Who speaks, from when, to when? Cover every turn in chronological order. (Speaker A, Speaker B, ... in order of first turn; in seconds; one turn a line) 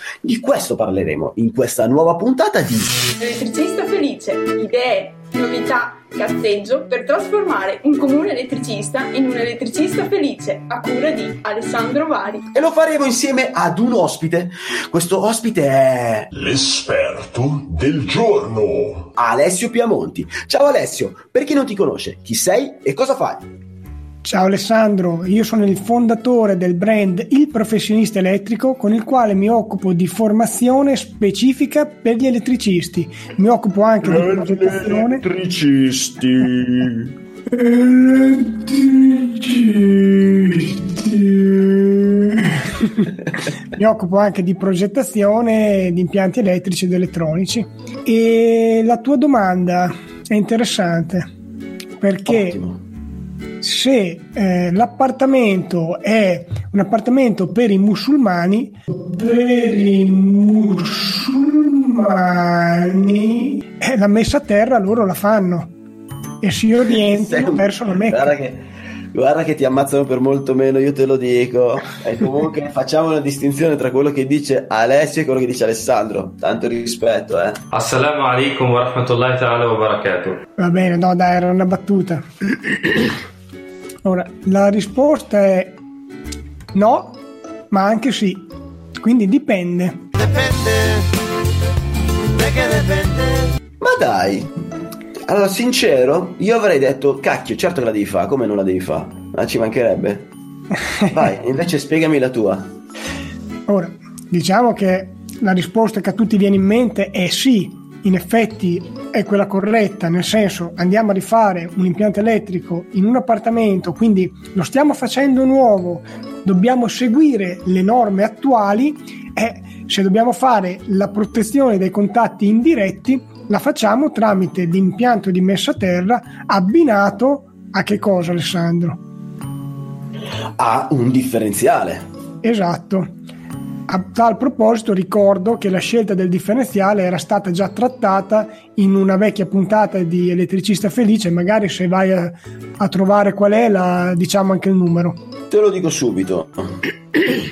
Speaker A: 0.2-2.9
Speaker B: 3.2-12.4
Speaker A: 12.5-16.3
Speaker C: 16.3-19.1
Speaker A: 19.1-23.4
Speaker D: 24.2-35.2
Speaker A: 34.0-37.1
Speaker D: 37.5-43.1
Speaker D: 43.7-51.2
Speaker D: 52.0-52.6
Speaker A: 52.3-52.8
Speaker D: 53.6-65.7
Speaker D: 66.4-68.3
Speaker A: 67.1-77.6
Speaker E: 77.7-80.4
Speaker D: 80.6-82.2
Speaker D: 84.0-85.8
Speaker D: 86.7-87.2
Speaker D: 87.7-88.5
Speaker D: 89.0-90.1
Speaker A: 90.5-90.9
Speaker A: 92.7-93.1
Speaker A: 93.8-94.5
Speaker A: 95.3-100.3
Speaker A: 101.1-102.7
Speaker D: 103.7-129.0
Speaker A: 130.6-132.1
Speaker D: 132.4-133.1
Speaker D: 133.9-145.2
Speaker A: 145.5-146.7